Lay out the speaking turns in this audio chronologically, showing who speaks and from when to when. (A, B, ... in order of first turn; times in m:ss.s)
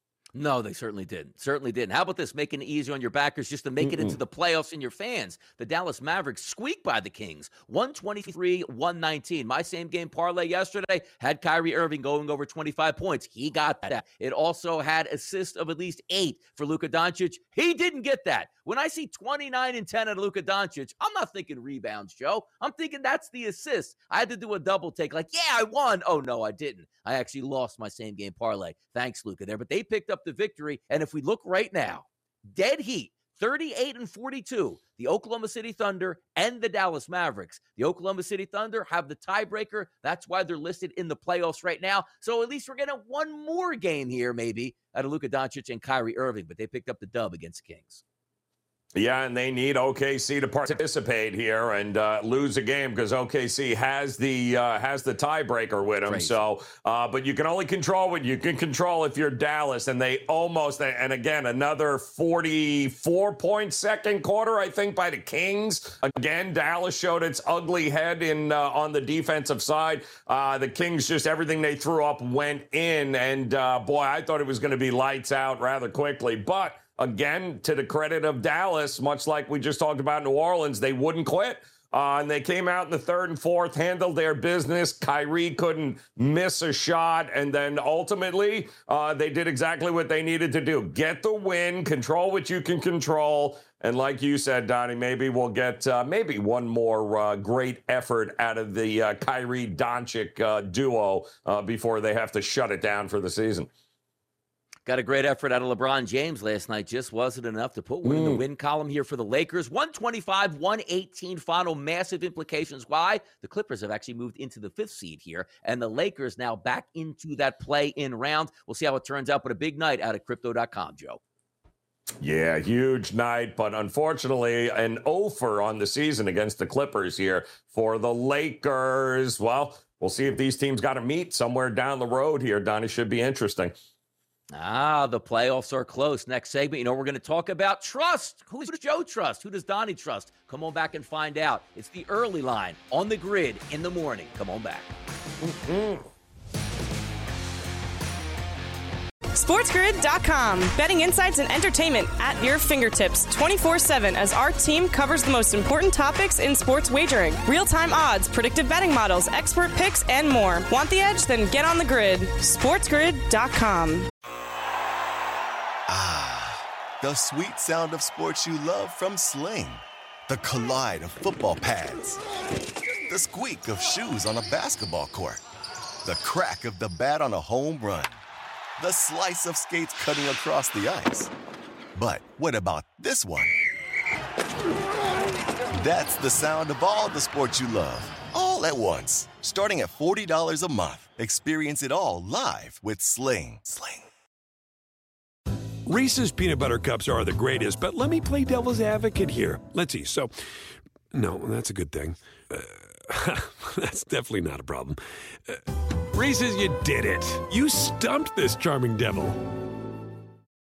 0:00.4-0:48.0 A
0:03.8-0:04.2 B
0:49.0-1:43.7 B
0:56.0-0:56.4 A
1:44.9-2:01.2 A
1:48.0-1:48.4 B
2:02.2-2:13.8 B
2:14.5-2:24.9 A
2:25.4-2:26.1 B
2:29.3-2:44.1 C
2:45.9-2:52.2 D
2:53.1-2:55.4 D
2:56.0-2:58.2 D
2:58.8-3:01.3 D
3:02.0-3:03.6 D
3:05.7-3:14.0 D
3:15.9-3:20.3 E
3:21.1-3:29.4 E